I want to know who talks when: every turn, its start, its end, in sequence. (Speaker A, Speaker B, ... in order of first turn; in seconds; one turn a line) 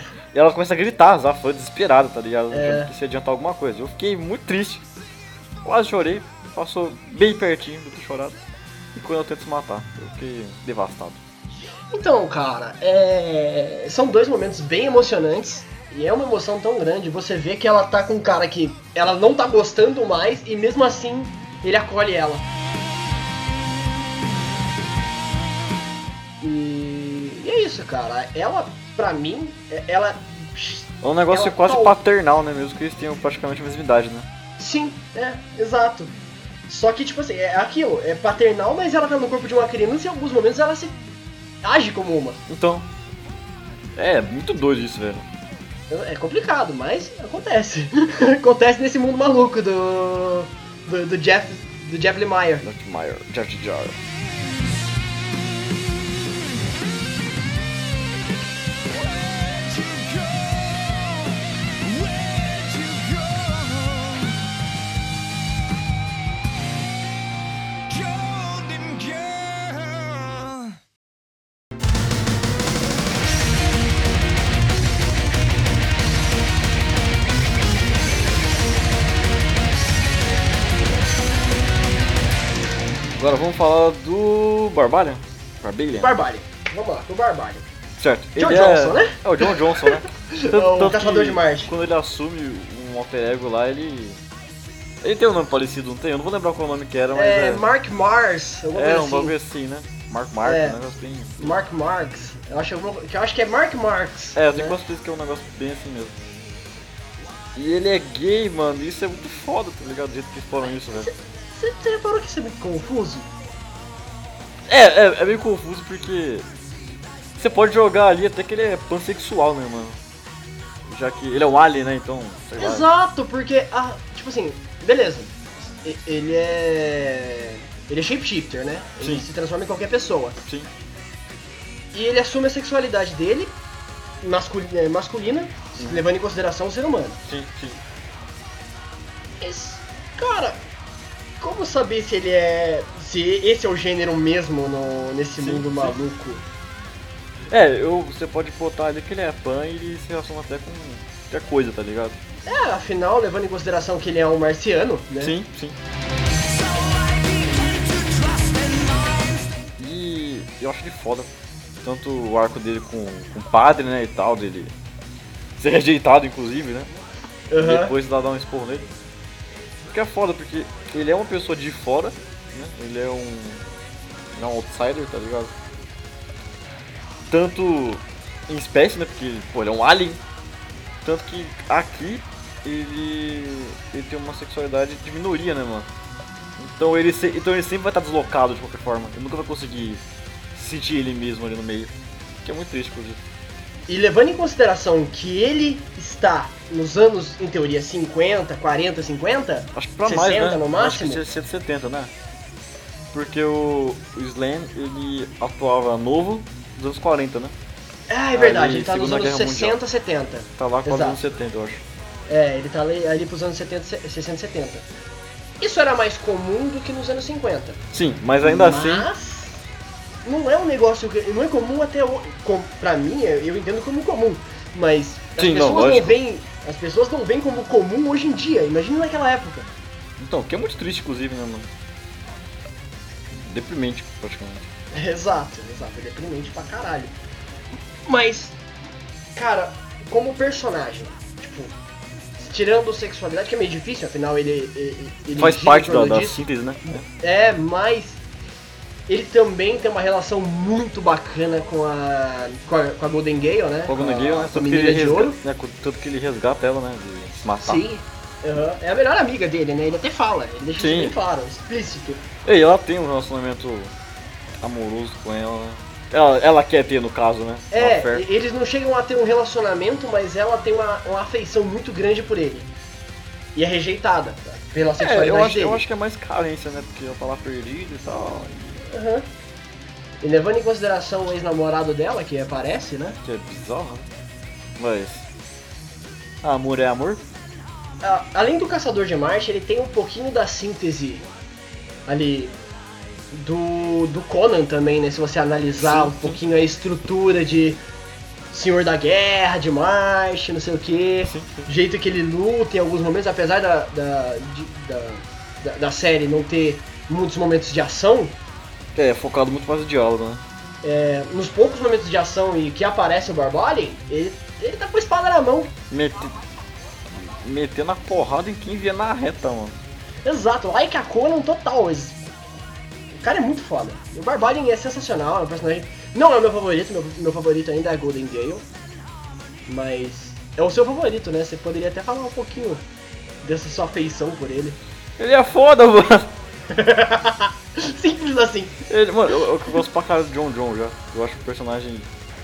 Speaker A: 0.3-4.8
Speaker B: 2.5-2.9
Speaker A: 5.6-8.4
Speaker A: 8.9-11.2
Speaker B: 11.9-22.5
Speaker B: 26.4-32.0
Speaker A: 31.0-34.3
Speaker B: 34.6-36.1
Speaker B: 36.7-41.0
Speaker B: 41.6-42.4
Speaker A: 42.5-42.9
Speaker A: 44.0-45.3
Speaker B: 45.9-52.6
Speaker A: 52.6-54.0
Speaker C: 58.9-64.4
Speaker C: 67.9-70.7
Speaker A: 83.2-86.2
Speaker B: 86.0-87.7
Speaker A: 88.0-94.2
Speaker B: 88.3-91.7
Speaker A: 95.0-97.7
Speaker B: 97.1-99.3
Speaker A: 98.7-101.6
Speaker B: 100.4-100.8
Speaker B: 101.4-104.8
Speaker A: 104.3-106.2
Speaker A: 107.5-111.1
Speaker B: 111.0-113.3
Speaker A: 114.7-116.5
Speaker A: 117.3-120.0
Speaker A: 120.8-122.9
Speaker B: 122.6-130.4
Speaker A: 129.0-129.2
Speaker B: 131.9-133.6
Speaker B: 134.2-137.2
Speaker A: 135.8-136.1
Speaker A: 137.3-137.8
Speaker B: 139.4-140.6
Speaker B: 141.4-146.4
Speaker A: 145.4-146.0
Speaker A: 147.5-152.2
Speaker B: 152.4-155.3
Speaker A: 155.2-155.8
Speaker C: 156.3-159.5
Speaker A: 159.8-161.3
Speaker A: 161.8-164.7
Speaker A: 165.6-166.9
Speaker B: 167.5-167.9
Speaker A: 167.6-168.9
Speaker A: 169.8-173.7
Speaker A: 174.3-175.5
Speaker A: 177.3-180.2
Speaker A: 181.0-185.9
Speaker A: 186.6-190.0
Speaker A: 190.5-193.2
Speaker B: 193.9-201.3
Speaker A: 199.7-202.1
Speaker A: 203.1-207.6
Speaker B: 208.1-211.2
Speaker A: 208.3-209.8
Speaker A: 210.6-211.8
Speaker B: 212.3-214.9
Speaker B: 215.6-217.8
Speaker A: 217.9-219.1
Speaker B: 218.4-219.6
Speaker B: 220.2-229.7
Speaker A: 225.4-226.2
Speaker A: 230.2-231.7
Speaker A: 233.3-234.7
Speaker B: 234.9-237.1
Speaker B: 238.1-238.6
Speaker B: 239.3-241.8
Speaker B: 242.4-248.2
Speaker A: 245.3-247.0
Speaker B: 249.1-255.4
Speaker A: 253.8-257.8
Speaker B: 257.6-262.3
Speaker A: 260.8-261.1
Speaker A: 262.4-263.9
Speaker A: 264.6-268.2
Speaker B: 267.7-272.7
Speaker B: 273.5-275.8
Speaker A: 275.0-278.8
Speaker B: 278.9-279.3
Speaker B: 280.2-283.2
Speaker A: 283.2-284.1
Speaker A: 284.8-285.3
Speaker A: 286.4-287.2
Speaker B: 288.0-291.3
Speaker B: 292.1-292.6
Speaker B: 293.3-297.8
Speaker A: 295.8-296.4
Speaker B: 298.5-308.4
Speaker A: 301.2-301.7
Speaker A: 308.9-310.4
Speaker B: 310.8-315.7
Speaker A: 315.9-316.3
Speaker A: 317.1-319.8
Speaker B: 320.2-322.2
Speaker B: 323.1-328.6
Speaker B: 329.7-332.8
Speaker B: 333.4-334.8
Speaker A: 335.2-336.3
Speaker B: 336.7-339.4
Speaker A: 338.9-342.1